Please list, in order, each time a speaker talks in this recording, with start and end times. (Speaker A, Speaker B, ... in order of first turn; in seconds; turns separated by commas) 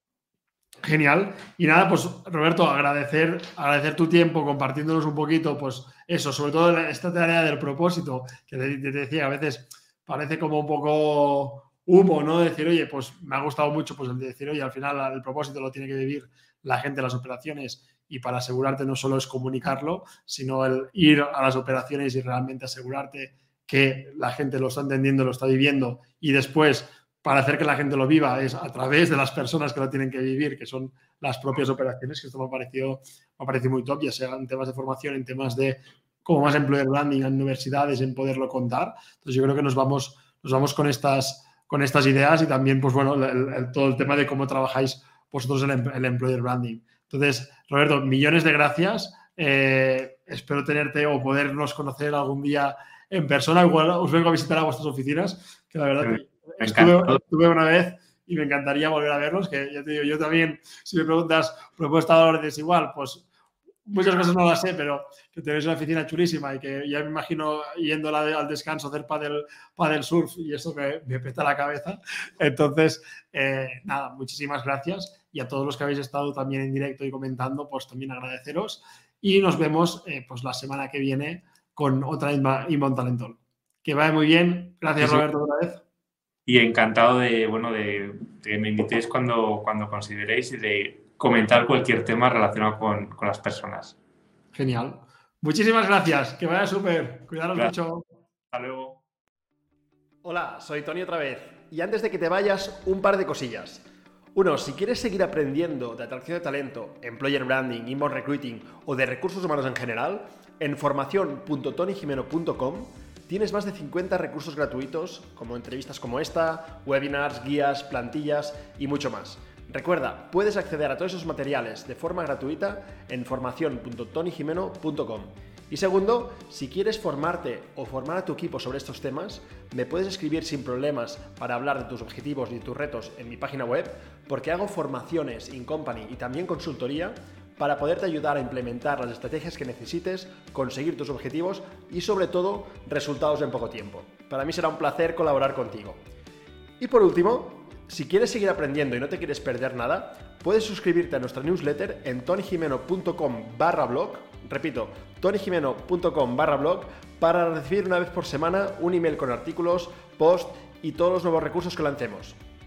Speaker A: 0.8-63.3, Speaker B: 56.0-57.2, Speaker A: 63.9-85.8, Speaker B: 86.5-94.0, Speaker A: 94.5-98.0, Speaker B: 98.5-99.0, Speaker C: 100.2-146.0, Speaker C: 146.8-162.4